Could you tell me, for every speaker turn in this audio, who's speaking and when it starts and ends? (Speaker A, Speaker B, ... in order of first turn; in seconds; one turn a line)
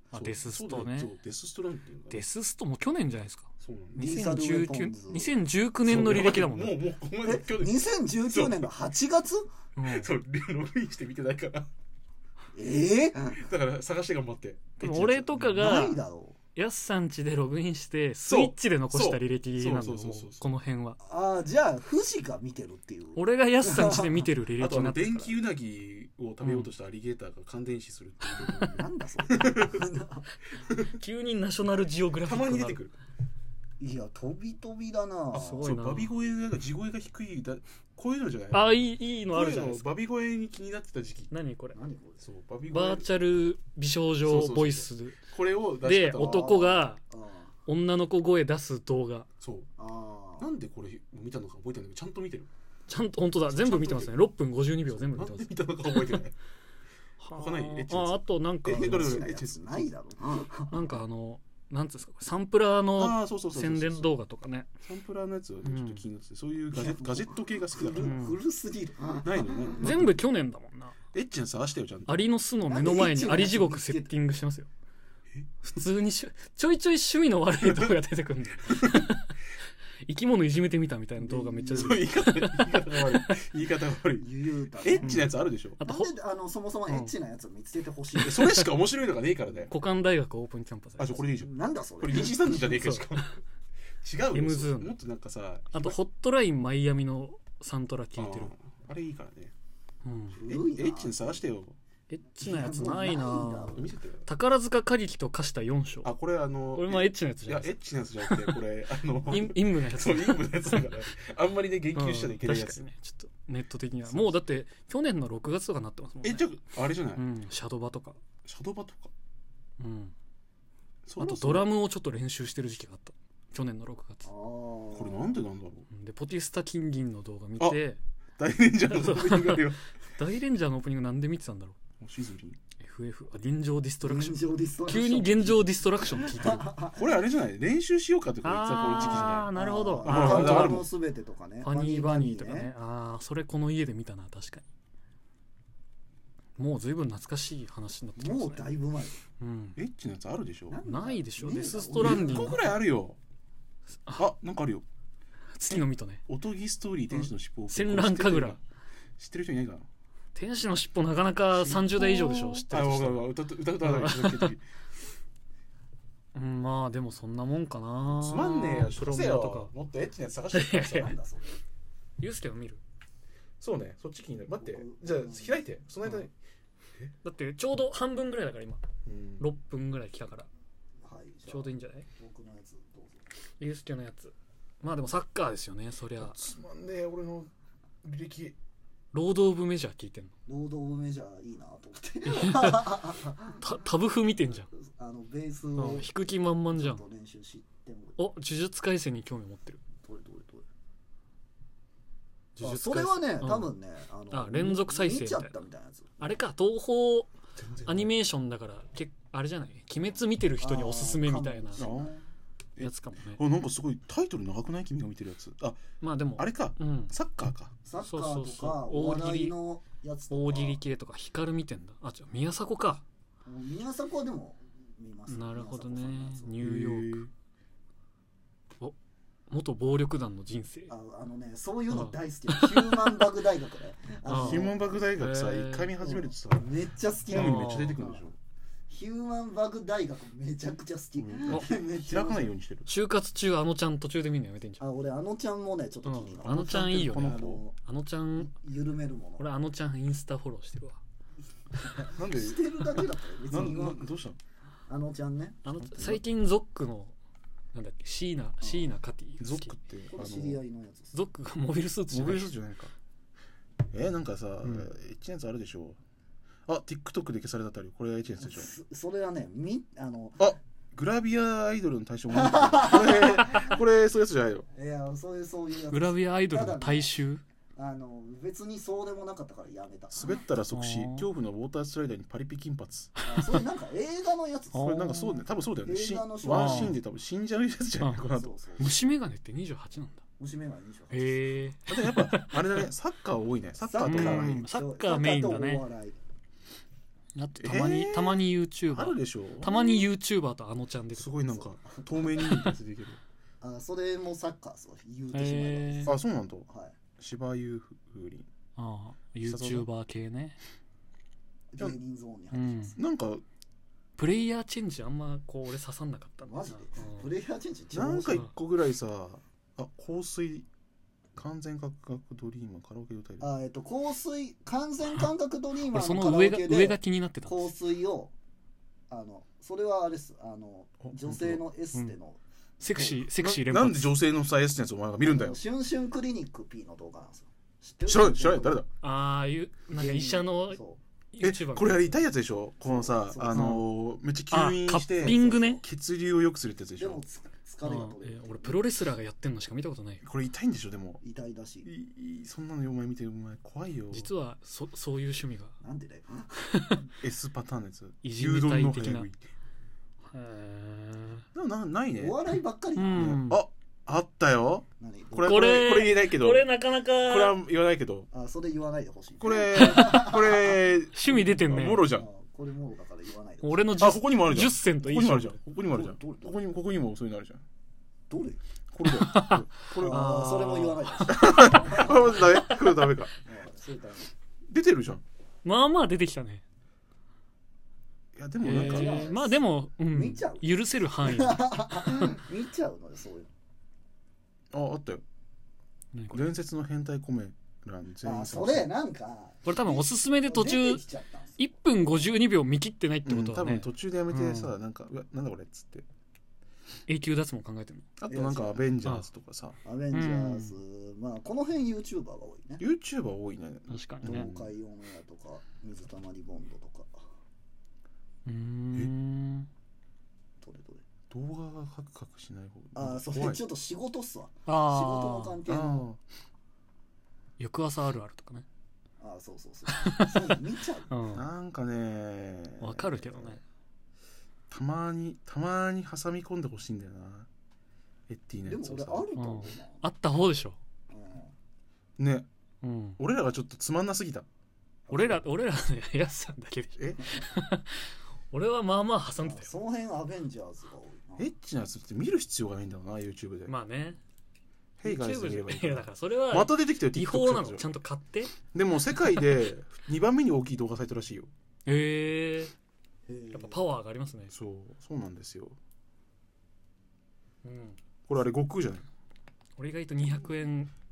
Speaker A: 0.1-1.1
Speaker B: 0.1-2.2
Speaker A: 2.1-6.8
Speaker B: 3.6-4.2
Speaker C: 4.0-5.4
Speaker B: 5.8-8.7
Speaker C: 7.2-9.5
Speaker A: 9.8-10.1
Speaker B: 9.8-11.7
Speaker C: 12.6-13.5
Speaker B: 13.3-15.7
Speaker A: 14.8-16.0
Speaker C: 15.4-16.4
Speaker A: 16.6-21.0
Speaker B: 18.3-20.4
Speaker C: 21.0-24.3
Speaker A: 23.1-25.4
Speaker B: 24.6-29.9
Speaker A: 26.4-26.7
Speaker A: 28.3-28.8
Speaker C: 28.5-30.3
Speaker B: 30.6-30.9
Speaker A: 30.9-32.8
Speaker B: 32.2-33.0
Speaker C: 33.8-35.7
Speaker A: 35.3-36.1
Speaker B: 35.6-41.3
Speaker A: 38.5-39.9
Speaker A: 41.3-41.8
Speaker C: 41.7-42.2
Speaker B: 42.2-43.1
Speaker A: 42.7-45.2
Speaker B: 44.2-46.5
Speaker A: 45.8-47.0
Speaker C: 46.2-47.5
Speaker A: 47.7-49.3
Speaker B: 49.4-49.7
Speaker C: 49.8-50.5
Speaker B: 50.4-52.5
Speaker A: 52.9-56.2
Speaker B: 53.5-54.1
Speaker B: 54.9-56.4
Speaker A: 57.2-59.2
Speaker B: 57.3-59.9
Speaker C: 58.7-60.9
Speaker A: 60.7-64.7
Speaker B: 63.0-64.1
Speaker B: 64.8-68.2
Speaker A: 65.7-66.0
Speaker C: 66.7-70.1
Speaker A: 68.0-68.4
Speaker B: 69.2-70.1
Speaker A: 69.8-71.0
Speaker B: 71.1-72.3
Speaker A: 72.1-74.7
Speaker C: 72.7-74.2
Speaker A: 75.6-79.3
Speaker B: 77.5-78.0
Speaker B: 78.6-79.1
Speaker A: 80.0-83.4
Speaker C: 81.2-82.1
Speaker B: 81.7-85.8
Speaker C: 84.2-85.2
Speaker A: 85.0-86.1
Speaker C: 85.8-88.4
Speaker A: 86.9-87.1
Speaker A: 88.2-88.7
Speaker B: 88.3-89.7
Speaker A: 89.7-91.2
Speaker B: 91.0-93.4
Speaker C: 91.2-92.7
Speaker A: 92.1-93.3
Speaker B: 94.0-96.0
Speaker A: 94.3-95.0
Speaker A: 95.7-98.5
Speaker B: 98.2-99.5
Speaker A: 100.0-100.4
Speaker C: 100.3-101.5
Speaker B: 100.4-101.8
Speaker A: 102.1-106.1
Speaker C: 102.4-103.9
Speaker B: 103.8-104.3
Speaker B: 106.0-112.8
Speaker A: 106.7-108.6
Speaker A: 109.2-110.9
Speaker A: 111.9-116.5
Speaker B: 114.1-114.4
Speaker B: 116.2-117.2
Speaker A: 117.1-118.2
Speaker B: 118.5-119.1
Speaker A: 119.8-120.1
Speaker B: 121.1-121.7
Speaker A: 121.2-124.3
Speaker C: 124.2-125.4
Speaker B: 124.9-125.9
Speaker A: 125.9-128.0
Speaker B: 128.4-129.9
Speaker A: 128.9-131.8
Speaker B: 132.0-132.6
Speaker A: 132.8-136.7
Speaker C: 134.0-137.1
Speaker B: 136.9-139.5
Speaker A: 138.4-140.9
Speaker C: 139.0-142.7
Speaker B: 140.1-140.9
Speaker A: 141.6-144.6
Speaker A: 146.6-148.7
Speaker C: 148.2-149.2
Speaker A: 149.4-149.8
Speaker B: 149.8-150.8
Speaker C: 150.7-152.6
Speaker A: 150.8-152.6
Speaker B: 152.0-153.2
Speaker B: 154.2-154.8
Speaker A: 155.5-156.2
Speaker B: 155.7-158.6
Speaker A: 157.1-158.6
Speaker B: 159.2-159.9
Speaker A: 160.3-164.6
Speaker B: 161.5-164.7
Speaker A: 166.3-169.7
Speaker B: 168.2-171.2
Speaker A: 170.5-171.1
Speaker C: 171.0-171.6
Speaker A: 172.2-172.8
Speaker B: 173.6-176.3
Speaker C: 174.5-175.7
Speaker A: 177.2-178.8
Speaker B: 179.1-179.5
Speaker A: 179.4-180.5
Speaker C: 181.0-183.2
Speaker A: 181.5-182.1
Speaker A: 183.6-186.4
Speaker B: 186.2-187.5
Speaker B: 188.0-188.6
Speaker A: 189.1-190.3
Speaker C: 190.5-193.6
Speaker A: 192.3-193.0
Speaker A: 193.6-194.7
Speaker C: 194.8-196.2
Speaker A: 195.8-197.0
Speaker C: 196.7-198.2
Speaker A: 198.2-199.8
Speaker C: 200.0-200.6
Speaker A: 202.6-203.8
Speaker C: 202.6-206.4
Speaker A: 204.3-205.5
Speaker A: 206.2-207.3
Speaker B: 207.6-208.1
Speaker A: 207.8-211.9
Speaker C: 210.6-212.3
Speaker B: 211.8-212.1
Speaker B: 212.8-215.8
Speaker A: 212.8-213.4
Speaker A: 216.0-217.1
Speaker B: 216.4-217.7
Speaker C: 217.8-220.8
Speaker A: 218.0-219.6
Speaker A: 220.3-223.0
Speaker C: 223.4-226.6
Speaker A: 225.3-227.2
Speaker B: 226.6-227.3
Speaker A: 229.5-230.9
Speaker C: 230.9-235.0
Speaker A: 231.9-233.2
Speaker A: 234.3-235.9
Speaker B: 234.3-236.7
Speaker C: 236.0-238.3
Speaker B: 237.3-238.3
Speaker A: 237.3-238.0
Speaker C: 238.9-242.5
Speaker B: 241.2-242.9
Speaker A: 242.9-244.8
Speaker C: 244.8-247.8
Speaker A: 246.0-248.5
Speaker B: 246.4-247.6
Speaker C: 248.4-249.5
Speaker A: 249.4-251.0
Speaker A: 251.8-252.1
Speaker C: 252.0-254.1
Speaker B: 252.2-254.4
Speaker C: 254.9-256.0
Speaker A: 255.6-257.1
Speaker A: 257.7-259.7
Speaker C: 258.6-259.0
Speaker B: 259.4-260.6
Speaker C: 260.1-261.3
Speaker A: 261.1-262.5
Speaker B: 262.1-262.9
Speaker B: 263.9-266.0
Speaker A: 264.6-264.9
Speaker B: 266.7-268.7
Speaker C: 268.4-270.6
Speaker B: 270.4-274.7
Speaker C: 272.3-273.7
Speaker C: 274.7-277.2
Speaker A: 275.9-277.4
Speaker C: 277.8-280.5
Speaker B: 280.1-283.1
Speaker A: 280.7-281.3
Speaker C: 283.3-285.0
Speaker A: 283.3-283.6
Speaker A: 284.7-285.4
Speaker B: 284.8-288.5
Speaker C: 285.8-286.9
Speaker A: 286.5-286.9
Speaker A: 288.0-288.3
Speaker C: 288.3-289.0
Speaker A: 288.8-290.2
Speaker C: 290.4-291.4
Speaker A: 291.1-292.8
Speaker B: 291.9-294.6
Speaker C: 293.8-296.2
Speaker A: 294.0-295.9
Speaker A: 297.4-301.3
Speaker B: 297.6-299.8
Speaker B: 301.1-303.2
Speaker C: 301.5-302.6
Speaker C: 303.6-307.0
Speaker A: 305.3-306.1
Speaker B: 306.1-308.5
Speaker A: 308.8-310.6
Speaker B: 309.4-309.9
Speaker C: 311.7-313.0
Speaker A: 312.5-313.0
Speaker B: 313.0-313.4
Speaker A: 314.2-317.3
Speaker C: 316.5-318.4
Speaker B: 317.9-320.7
Speaker B: 321.4-323.5
Speaker C: 323.4-328.3
Speaker A: 325.9-327.7
Speaker C: 329.1-333.2
Speaker B: 331.0-331.6
Speaker A: 332.8-334.1
Speaker B: 333.4-335.6
Speaker C: 335.2-338.8
Speaker B: 338.1-338.9
Speaker A: 339.0-340.8
Speaker C: 340.0-341.0
Speaker A: 341.3-342.2
Speaker B: 341.4-347.2
Speaker C: 342.8-343.7
Speaker A: 343.5-343.9
Speaker A: 344.5-345.8
Speaker C: 345.2-345.8
Speaker C: 347.0-348.8
Speaker A: 347.8-350.2
Speaker B: 350.2-351.2
Speaker C: 351.2-351.9
Speaker B: 351.8-354.3
Speaker A: 354.1-355.8
Speaker C: 355.8-356.7
Speaker A: 356.7-357.1
Speaker B: 357.2-359.5
Speaker A: 358.2-359.3
Speaker A: 360.2-361.5
Speaker B: 361.5-362.4
Speaker C: 362.2-363.2
Speaker A: 363.0-363.6
Speaker B: 363.1-366.7
Speaker C: 365.0-365.6
Speaker A: 365.4-367.6
Speaker B: 367.2-368.3
Speaker C: 368.3-370.8
Speaker B: 369.4-372.3
Speaker A: 369.7-370.4
Speaker A: 371.1-372.1
Speaker C: 372.1-374.0
Speaker A: 373.6-375.6
Speaker B: 374.0-377.6
Speaker C: 375.9-376.6
Speaker C: 378.3-378.6
Speaker B: 378.9-380.4
Speaker A: 379.1-382.8
Speaker C: 380.0-382.6
Speaker B: 381.3-383.3
Speaker C: 383.4-384.3
Speaker B: 384.7-385.2
Speaker A: 385.6-386.6
Speaker B: 388.4-389.3
Speaker A: 388.6-392.1
Speaker C: 388.7-393.5
Speaker B: 394.7-395.2
Speaker A: 396.1-396.4
Speaker B: 396.3-398.9
Speaker C: 398.2-402.3
Speaker A: 399.6-401.0
Speaker A: 401.6-404.7
Speaker B: 403.2-406.1
Speaker A: 407.1-408.1
Speaker B: 408.2-409.8
Speaker C: 408.3-408.9
Speaker C: 409.8-412.8
Speaker A: 410.1-410.7
Speaker B: 412.8-414.7
Speaker A: 413.9-414.5
Speaker C: 414.2-417.2
Speaker A: 418.5-419.7
Speaker C: 420.6-421.0
Speaker B: 421.3-423.6
Speaker C: 422.9-426.1
Speaker A: 424.7-425.6
Speaker B: 425.6-426.2
Speaker A: 427.6-428.7
Speaker C: 429.2-431.2
Speaker A: 429.9-430.6
Speaker A: 431.1-431.5
Speaker B: 431.3-433.0
Speaker A: 432.8-433.6
Speaker C: 433.0-433.6
Speaker B: 434.7-437.5
Speaker B: 438.3-439.3
Speaker C: 438.7-440.1
Speaker A: 439.4-440.8
Speaker C: 441.1-441.5
Speaker B: 442.2-442.5
Speaker A: 442.8-443.2
Speaker B: 443.2-444.5
Speaker C: 445.1-445.4
Speaker A: 445.1-449.7
Speaker B: 447.0-447.2
Speaker C: 449.4-451.5
Speaker B: 451.4-453.7
Speaker A: 453.7-454.2
Speaker B: 455.0-457.9
Speaker A: 455.0-458.6
Speaker B: 458.7-461.5
Speaker A: 461.9-462.7
Speaker C: 463.3-463.9
Speaker A: 463.5-464.5
Speaker B: 464.5-465.8
Speaker A: 467.6-468.0
Speaker B: 468.3-469.1
Speaker A: 469.8-470.9